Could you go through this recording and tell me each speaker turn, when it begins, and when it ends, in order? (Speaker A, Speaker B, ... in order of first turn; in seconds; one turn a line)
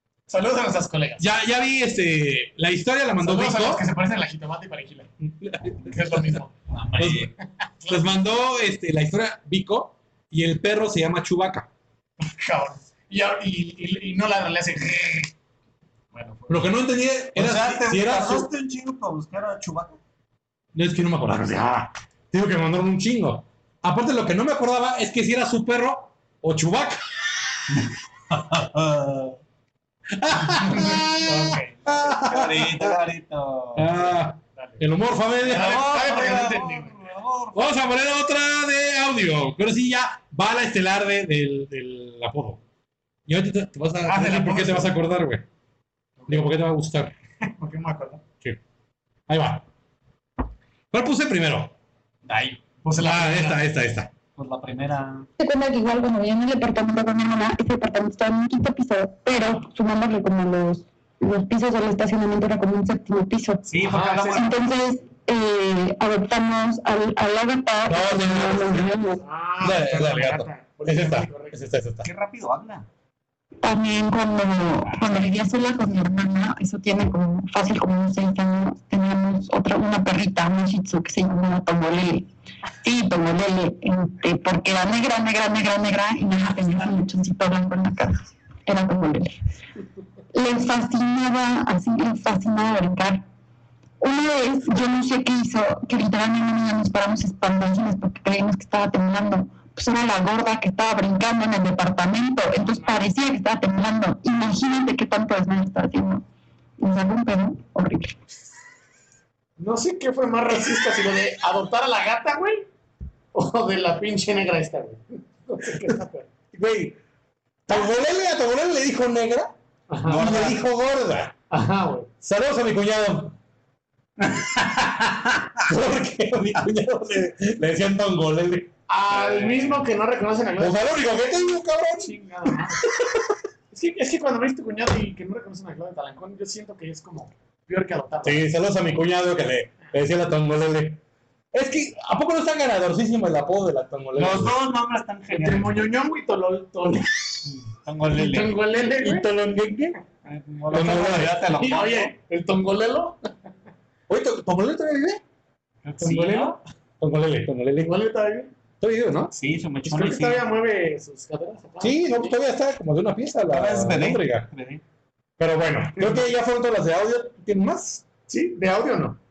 Speaker A: 0.3-1.3
Speaker B: 1.2-3.8
Speaker A: 3.2-5.1
Speaker B: 5.4-6.4
Speaker A: 5.8-6.5
Speaker C: 6.7-7.3
Speaker B: 7.0-7.3
Speaker A: 7.8-8.2
Speaker B: 7.9-11.7
Speaker A: 12.2-15.3
Speaker A: 16.1-16.7
Speaker B: 16.5-18.5
Speaker C: 17.4-20.0
Speaker B: 20.8-27.0
Speaker C: 28.3-29.4
Speaker B: 30.1-33.0
Speaker A: 30.5-32.1
Speaker C: 32.1-34.1
Speaker B: 33.8-35.7
Speaker A: 34.6-34.9
Speaker A: 35.4-37.0
Speaker C: 35.5-37.8
Speaker B: 37.5-42.6
Speaker B: 43.3-45.5
Speaker A: 44.1-44.9
Speaker A: 46.2-46.6
Speaker B: 46.3-47.1
Speaker A: 47.4-48.2
Speaker B: 49.3-49.6
Speaker B: 50.9-51.7
Speaker C: 52.2-52.6
Speaker A: 52.8-53.6
Speaker B: 53.0-54.1
Speaker C: 54.4-55.3
Speaker D: 55.4-69.2
Speaker C: 63.7-64.7
Speaker A: 63.8-64.5
Speaker B: 67.9-68.9
Speaker A: 69.3-71.6
Speaker B: 69.6-72.1
Speaker C: 72.0-72.9
Speaker D: 73.6-82.3
Speaker D: 82.8-89.4
Speaker D: 90.3-93.2
Speaker D: 94.0-106.2
Speaker D: 106.8-108.2
Speaker A: 109.6-112.7
Speaker A: 113.3-116.3
Speaker B: 116.5-117.0
Speaker B: 117.7-119.5
Speaker A: 119.9-120.5
Speaker C: 120.1-120.6
Speaker B: 120.1-121.3
Speaker A: 121.5-122.1
Speaker B: 122.2-123.3
Speaker B: 125.7-129.8
Speaker A: 128.9-130.8
Speaker B: 130.6-133.3
Speaker A: 132.0-132.8
Speaker A: 133.7-138.5
Speaker B: 138.2-141.0
Speaker B: 141.5-144.5
Speaker C: 144.2-145.9
Speaker A: 145.4-147.4
Speaker C: 147.5-148.6
Speaker A: 148.1-149.3
Speaker B: 149.0-150.0
Speaker C: 150.2-152.1
Speaker B: 150.7-151.4
Speaker A: 151.6-153.2
Speaker B: 154.1-155.2
Speaker C: 155.8-156.6
Speaker B: 156.0-157.9
Speaker A: 157.8-158.5
Speaker B: 158.8-159.3
Speaker C: 159.3-160.4
Speaker A: 159.9-162.3
Speaker B: 161.8-164.5
Speaker C: 163.5-164.8
Speaker B: 165.4-168.1
Speaker A: 166.0-166.2
Speaker A: 168.3-169.2